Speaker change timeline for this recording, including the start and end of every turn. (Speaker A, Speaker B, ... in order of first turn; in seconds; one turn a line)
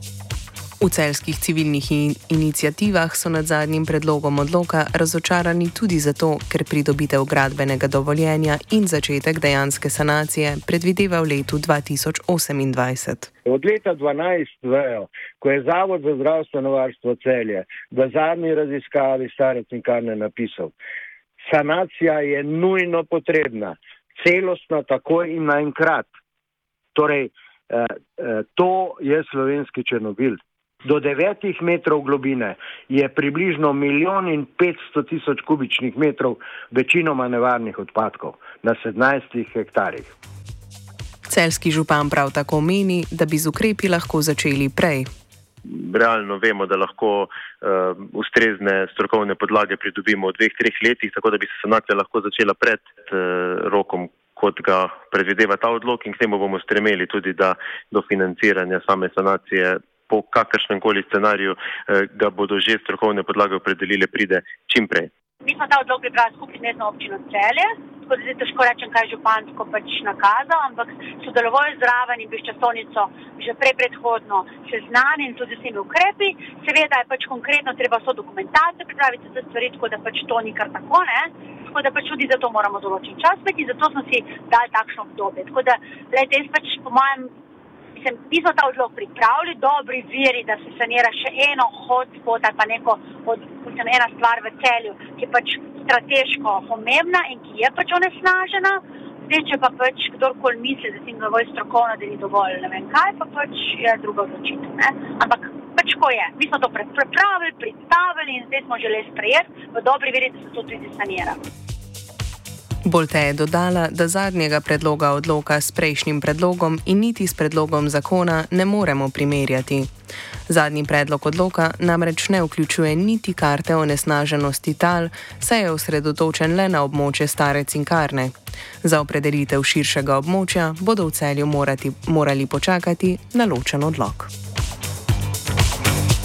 Speaker A: 0.8-13.3
Speaker B: 13.4-20.7
Speaker B: 21.4-26.1
Speaker B: 26.9-40.1
Speaker A: 41.3-45.1
Speaker C: 45.6-65.1
Speaker D: 65.4-87.3
Speaker D: 88.0-111.4
Speaker A: 112.8-119.9
Speaker A: 120.5-134.3